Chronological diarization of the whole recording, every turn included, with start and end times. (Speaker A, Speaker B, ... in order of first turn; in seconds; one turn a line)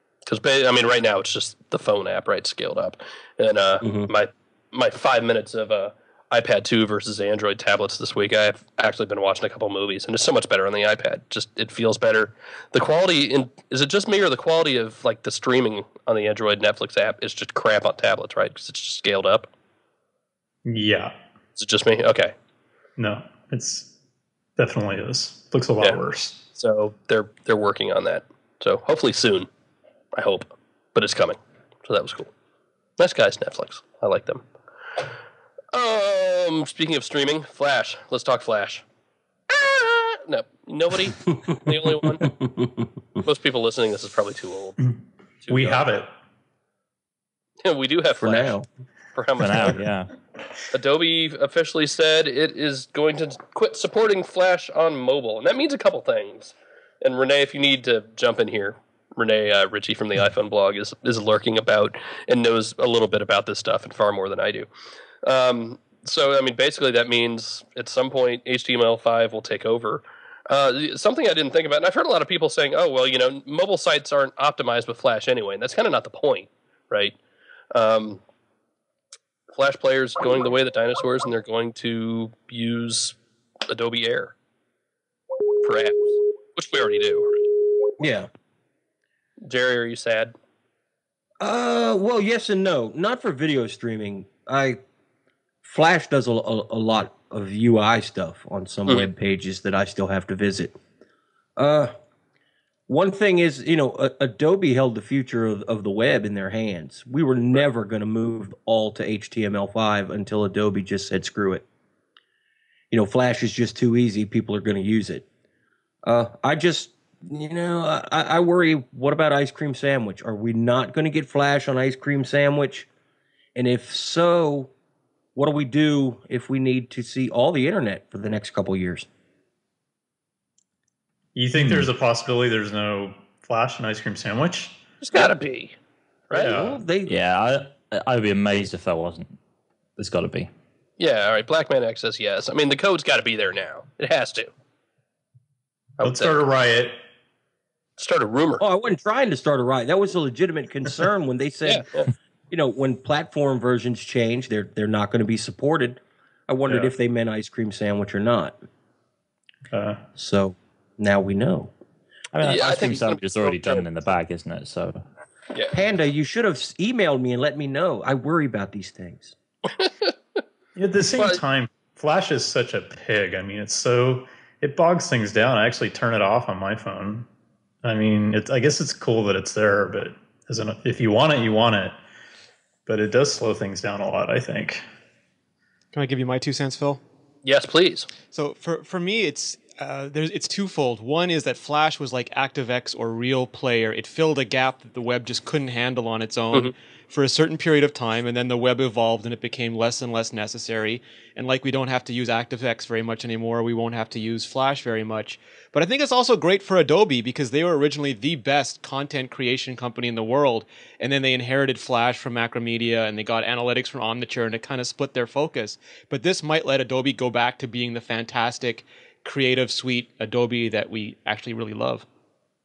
Speaker A: 0.2-19.5
Speaker B: 3.8-4.1
Speaker C: 20.6-21.1
Speaker A: 21.6-22.3
Speaker C: 23.0-23.9
Speaker C: 24.6-26.4
Speaker A: 26.5-29.5
Speaker A: 30.1-32.3
Speaker A: 33.0-34.4
Speaker A: 35.7-38.8
Speaker A: 39.5-42.3
Speaker B: 41.7-42.9
Speaker A: 43.2-44.8
Speaker C: 44.8-46.1
Speaker A: 45.4-45.9
Speaker A: 47.6-48.5
Speaker B: 48.2-48.6
Speaker A: 49.1-49.8
Speaker D: 49.4-50.1
Speaker A: 50.7-64.7
Speaker A: 65.2-77.2
Speaker A: 77.7-78.2
Speaker A: 79.5-83.2
Speaker A: 83.7-84.3
Speaker A: 85.6-87.4
Speaker B: 88.0-88.3
Speaker A: 89.4-90.3
Speaker B: 91.4-94.8
Speaker B: 95.6-100.8
Speaker B: 101.6-101.9
Speaker B: 102.9-111.6
Speaker B: 112.9-115.2
Speaker B: 116.0-122.9
Speaker B: 123.5-124.7
Speaker B: 125.3-129.1
Speaker C: 131.3-134.8
Speaker D: 131.6-131.9
Speaker A: 135.0-135.8
Speaker A: 136.3-136.6
Speaker C: 136.3-136.8
Speaker B: 136.3-137.1
Speaker D: 137.1-139.3
Speaker D: 140.0-140.5
Speaker A: 141.0-144.5
Speaker A: 146.0-146.4
Speaker C: 146.0-147.0
Speaker A: 148.0-148.6
Speaker B: 148.6-151.8
Speaker A: 151.6-152.1
Speaker B: 152.5-158.6
Speaker C: 156.6-156.9
Speaker C: 159.7-160.0
Speaker B: 160.2-161.7
Speaker D: 162.3-165.0
Speaker A: 162.4-163.8
Speaker B: 165.7-169.3
Speaker A: 169.7-170.1
Speaker C: 170.8-177.3
Speaker C: 177.8-182.0
Speaker C: 182.8-184.8
Speaker E: 185.9-187.0
Speaker A: 187.4-188.1
Speaker E: 188.3-222.0